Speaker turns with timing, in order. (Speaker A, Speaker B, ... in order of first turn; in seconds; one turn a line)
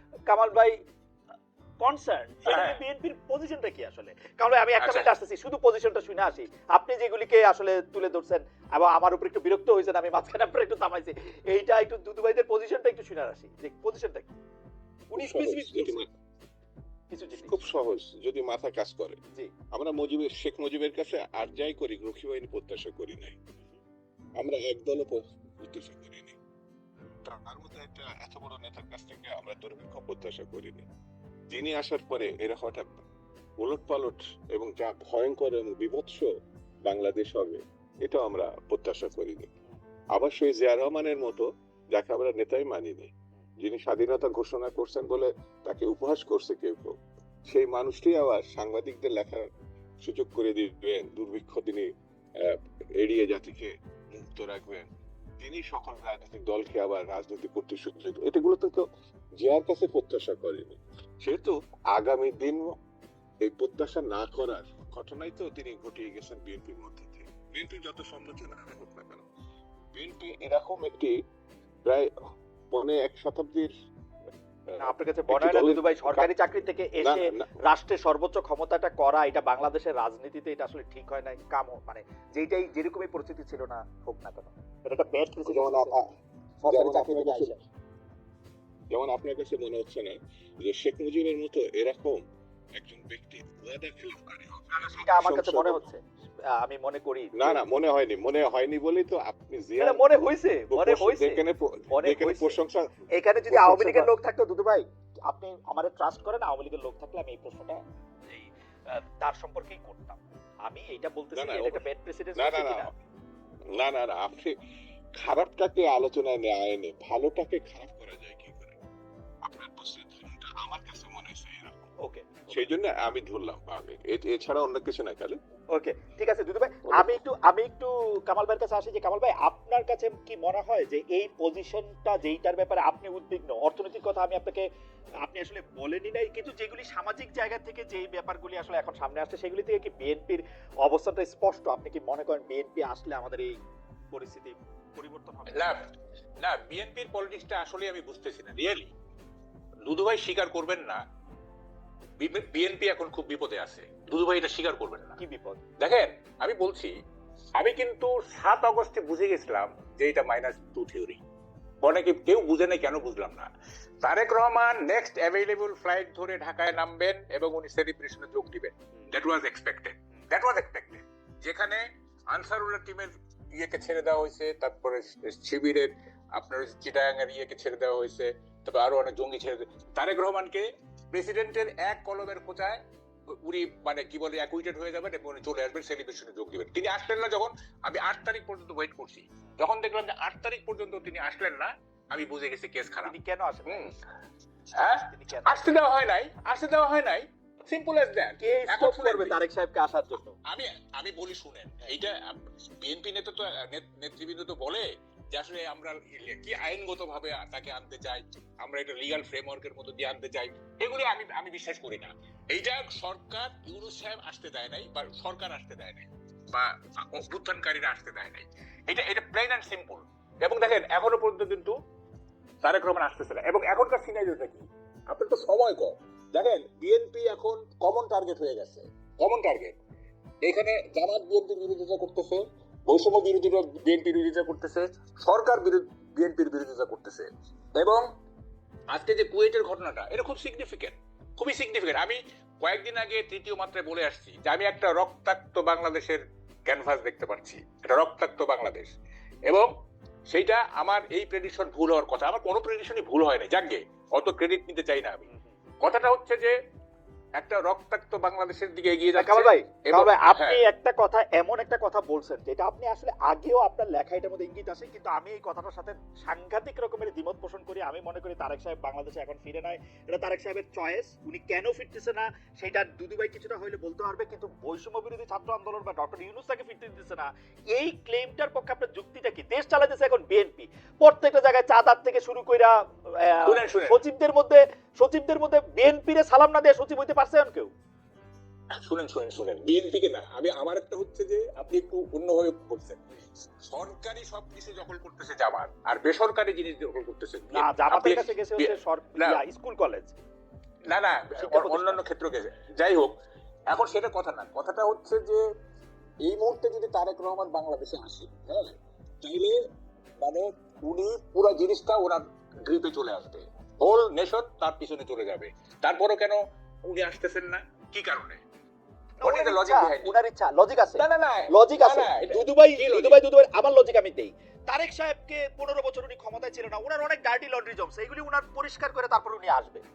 Speaker A: 0.3-0.8
Speaker A: 1.8-14.4
Speaker B: 2.5-2.8
Speaker B: 4.8-5.1
Speaker A: 15.1-16.0
Speaker C: 15.2-16.1
Speaker A: 17.1-17.6
Speaker C: 17.4-19.2
Speaker C: 19.7-23.4
Speaker C: 24.4-26.4
Speaker C: 27.2-30.9
Speaker C: 31.5-32.9
Speaker C: 33.6-36.3
Speaker C: 36.8-39.5
Speaker C: 40.1-46.9
Speaker C: 47.5-49.5
Speaker C: 50.0-54.9
Speaker C: 55.4-58.9
Speaker C: 59.4-62.8
Speaker C: 63.4-69.3
Speaker C: 69.9-71.2
Speaker C: 71.8-72.1
Speaker C: 72.7-73.7
Speaker C: 74.7-77.5
Speaker A: 74.8-86.0
Speaker C: 85.4-86.1
Speaker A: 86.6-87.6
Speaker C: 86.7-87.5
Speaker C: 88.9-92.2
Speaker C: 92.8-95.8
Speaker A: 94.9-97.6
Speaker C: 97.4-100.0
Speaker A: 99.8-102.6
Speaker C: 100.7-104.1
Speaker A: 103.2-112.9
Speaker C: 111.3-111.8
Speaker C: 112.4-112.9
Speaker C: 113.7-114.5
Speaker C: 115.2-118.8
Speaker C: 119.4-121.8
Speaker A: 122.0-122.7
Speaker C: 122.5-125.4
Speaker A: 125.7-134.7
Speaker C: 126.9-127.2
Speaker A: 135.2-143.5
Speaker A: 144.1-145.8
Speaker B: 145.5-145.8
Speaker B: 146.4-148.9
Speaker B: 149.9-151.0
Speaker B: 152.2-155.2
Speaker A: 155.2-155.6
Speaker B: 155.8-156.9
Speaker B: 157.6-161.2
Speaker B: 161.8-163.5
Speaker B: 164.0-193.1
Speaker A: 193.0-193.9
Speaker B: 194.8-199.4
Speaker A: 195.1-195.7
Speaker A: 198.4-200.4
Speaker B: 200.5-221.8
Speaker B: 222.6-229.8
Speaker B: 230.4-238.1
Speaker B: 238.9-248.9
Speaker B: 250.3-255.3
Speaker B: 255.8-256.6
Speaker B: 257.4-260.6
Speaker A: 259.2-287.7
Speaker B: 283.4-284.0
Speaker B: 288.8-293.0
Speaker B: 293.7-299.4
Speaker A: 297.5-300.1
Speaker B: 300.9-303.2
Speaker A: 301.4-302.0
Speaker B: 303.7-305.4
Speaker B: 306.2-309.6
Speaker B: 310.2-318.4
Speaker A: 319.2-329.8
Speaker B: 319.2-320.1
Speaker B: 321.0-323.2